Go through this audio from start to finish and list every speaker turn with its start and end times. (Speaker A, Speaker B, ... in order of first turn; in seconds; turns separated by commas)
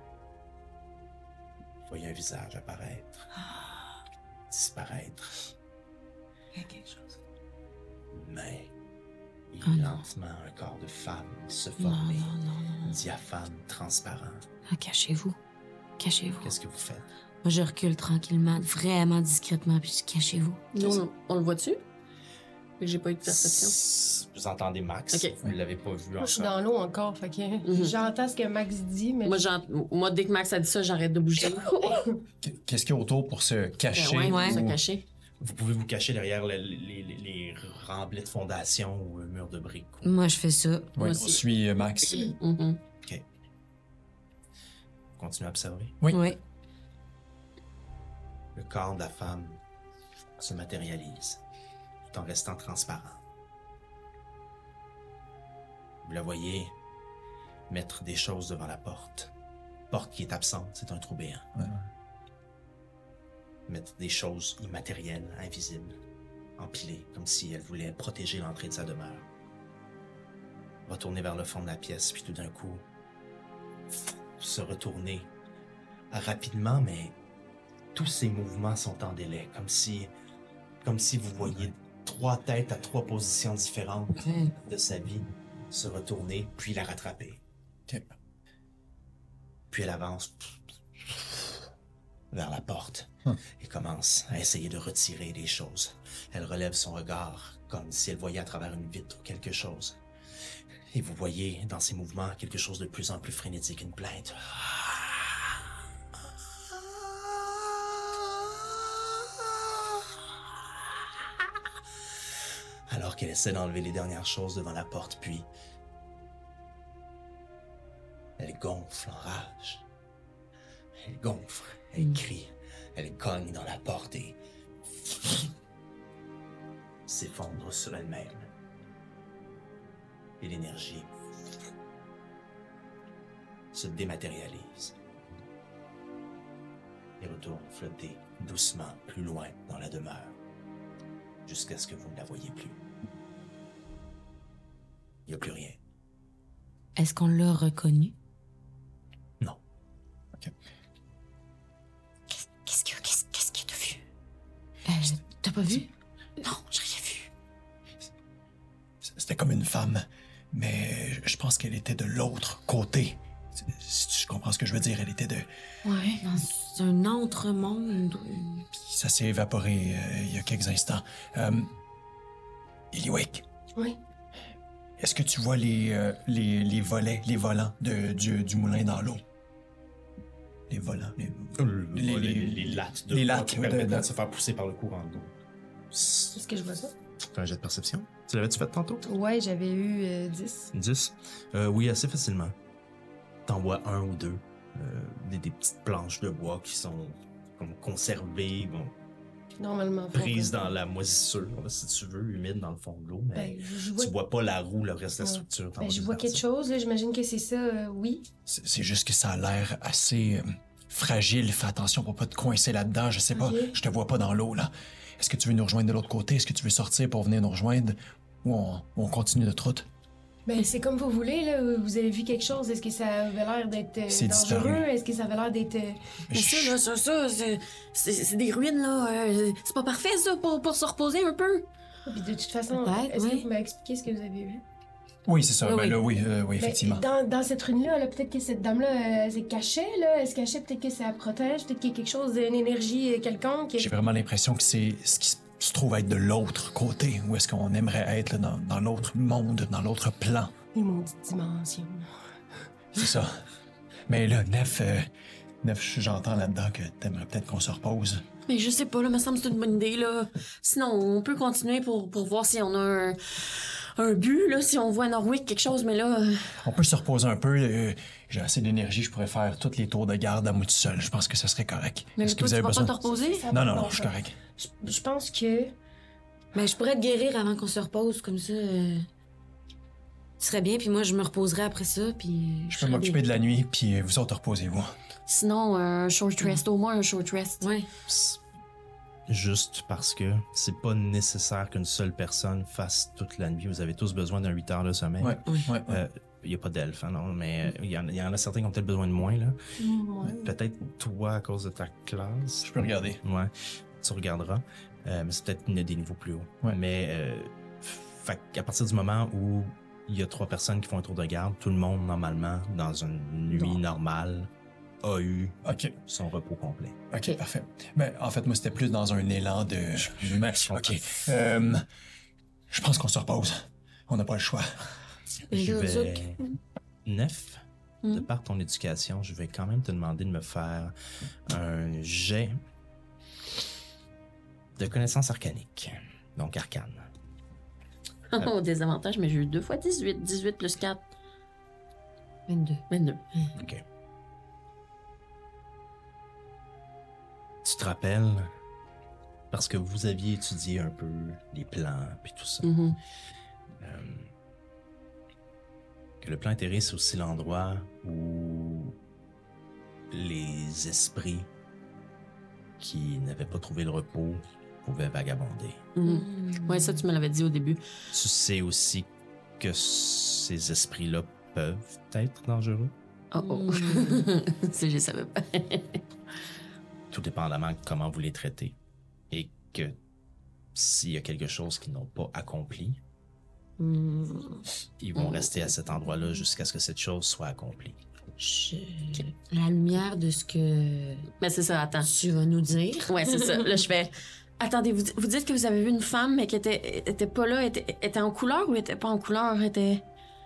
Speaker A: 1.9-3.3, Speaker B: 3.4-3.9, Speaker A: 4.5-5.5, Speaker B: 6.6-7.0, Speaker A: 8.1-8.7, Speaker A: 9.5-14.5, Speaker B: 9.7-10.0, Speaker B: 11.8-13.0, Speaker B: 14.7-15.4, Speaker B: 16.0-16.5, Speaker A: 16.4-17.1, Speaker B: 17.4-21.0, Speaker C: 20.7-21.8, Speaker C: 22.8-23.8, Speaker A: 23.2-26.6, Speaker D: 26.2-29.4, Speaker C: 27.6-27.9, Speaker C: 29.2-31.8, Speaker D: 31.8-32.1, Speaker E: 32.4-34.8, Speaker C: 33.9-35.0, Speaker B: 34.3-34.6, Speaker A: 35.4-40.1, Speaker B: 40.0-41.3, Speaker E: 41.0-42.3, Speaker C: 42.0-42.8, Speaker A: 45.2-46.0, Speaker E: 46.0-46.3, Speaker B: 46.1-46.4, Speaker A: 48.5-49.6, Speaker A: 50.4-51.4, Speaker A: 52.1-53.2, Speaker A: 56.0-56.8, Speaker A: 57.7-59.3, Speaker A: 59.9-61.7, Speaker E: 61.6-61.8, Speaker A: 63.7-66.0, Speaker A: 66.6-69.3, Speaker A: 70.9-72.8, Speaker A: 74.4-75.3, Speaker A: 76.1-77.2, Speaker A: 77.9-80.1, Speaker A: 80.8-87.4, Speaker B: 84.3-84.5, Speaker E: 87.9-88.2, Speaker A: 89.7-91.5, Speaker A: 92.3-100.0, Speaker A: 100.9-105.1, Speaker A: 112.9-115.5, Speaker A: 118.4-119.8, Speaker A: 121.0-124.4, Speaker A: 127.1-128.5, Speaker A: 130.4-131.2, Speaker A: 133.7-135.0, Speaker A: 137.2-140.4, Speaker A: 141.5-142.8, Speaker A: 145.3-145.8, Speaker B: 147.0-148.2, Speaker B: 152.5-154.0, Speaker B: 154.9-155.9, Speaker C: 156.4-157.3, Speaker E: 159.0-165.5, Speaker C: 165.8-166.2, Speaker B: 166.2-168.7, Speaker E: 168.8-171.7, Speaker E: 172.9-173.4, Speaker E: 175.0-179.2, Speaker E: 180.7-184.1, Speaker A: 181.6-185.3, Speaker A: 185.9-186.4, Speaker D: 186.3-186.9, Speaker A: 187.3-189.1, Speaker D: 189.1-190.7, Speaker A: 190.7-192.6, Speaker A: 193.5-198.9, Speaker D: 199.6-200.6, Speaker A: 200.1-206.4, Speaker D: 203.3-204.1, Speaker D: 205.2-208.3, Speaker E: 208.5-219.9, Speaker D: 213.3-213.8, Speaker D: 220.5-226.0, Speaker E: 224.1-224.9, Speaker E: 226.3-226.8, Speaker C: 226.3-231.7, Speaker D: 232.1-234.6, Speaker B: 232.7-233.5, Speaker E: 235.3-237.1, Speaker B: 235.6-236.0, Speaker D: 236.6-243.9, Speaker E: 243.8-250.5, Speaker D: 250.8-252.1, Speaker E: 252.9-253.4, Speaker E: 254.1-255.1, Speaker E: 255.6-258.2, Speaker C: 258.5-266.6, Speaker E: 266.6-273.0, Speaker C: 272.2-273.4, Speaker D: 273.0-275.8, Speaker E: 273.5-274.4, Speaker B: 276.5-279.1, Speaker B: 280.4-283.2, Speaker E: 282.7-285.0, Speaker C: 285.3-287.7, Speaker B: 287.6-287.9, Speaker A: 288.1-288.4, Speaker A: 289.3-299.6, Speaker E: 295.2-296.0, Speaker D: 299.8-300.4, Speaker A: 300.4-302.7, Speaker E: 302.6-303.2, Speaker A: 303.2-314.5, Speaker A: 315.0-317.0, Speaker E: 315.6-316.0, Speaker E: 317.1-321.9, Speaker A: 320.0-321.2, Speaker E: 322.7-325.0, Speaker B: 325.5-326.3, Speaker A: 325.5-326.4, Speaker A: 327.1-330.9, Speaker A: 331.5-332.6, Speaker A: 334.8-337.1, Speaker C: 338.3-341.0, Speaker B: 342.5-342.8, Speaker C: 342.9-343.2, Speaker A: 343.6-343.8, Speaker A: 347.6-348.5, Speaker A: 349.5-352.7, Speaker C: 352.6-353.0, Speaker A: 353.8-354.3, Speaker A: 356.2-359.0, Speaker A: 360.1-361.5, Speaker A: 362.8-365.8, Speaker C: 365.9-367.8, Speaker B: 366.0-367.0, Speaker A: 368.1-372.9, Speaker C: 373.3-376.0, Speaker B: 373.4-374.2, Speaker A: 377.1-378.8, Speaker A: 379.3-380.0, Speaker A: 380.8-383.0, Speaker B: 383.8-384.7, Speaker A: 385.0-388.0, Speaker C: 385.2-385.6, Speaker B: 388.4-391.3, Speaker C: 391.4-392.1, Speaker B: 392.0-393.8, Speaker C: 393.1-400.0